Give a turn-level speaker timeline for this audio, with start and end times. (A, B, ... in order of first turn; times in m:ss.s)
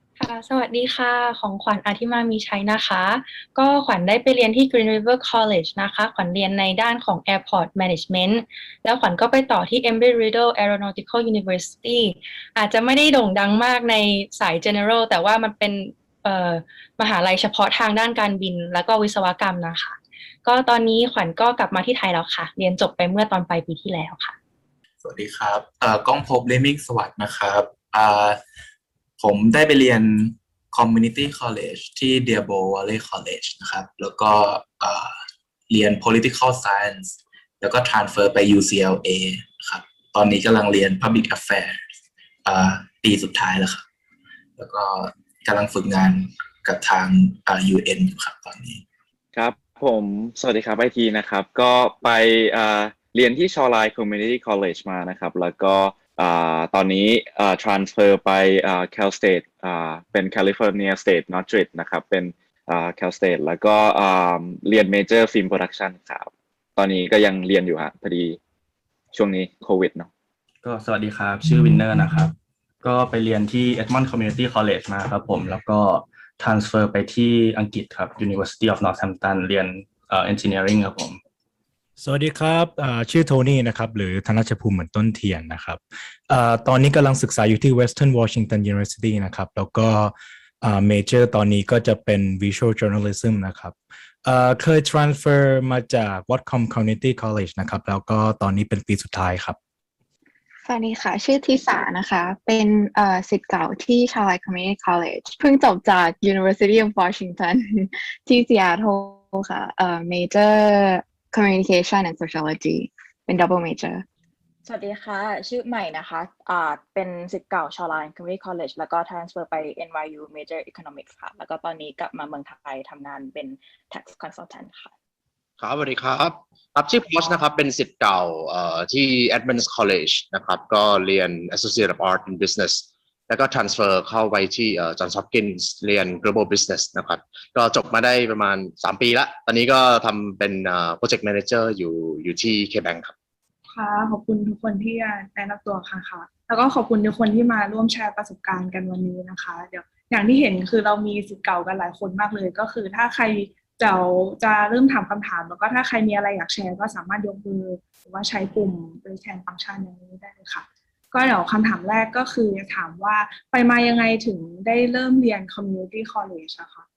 0:00.2-0:24.3 A
0:25.0-0:28.4 B
0:29.2-0:35.1 B
0:35.7-0:41.7 B
0:42.4-0:43.8 B
0:44.6-0:48.8 B
0:49.3-1:08.4 C
1:09.1-1:10.1 C
1:10.6-1:21.2 D
1:22.0-1:39.6 E
1:40.6-1:54.0 F
1:54.6-2:04.9 G
2:05.6-2:23.1 H
2:23.7-2:46.8 I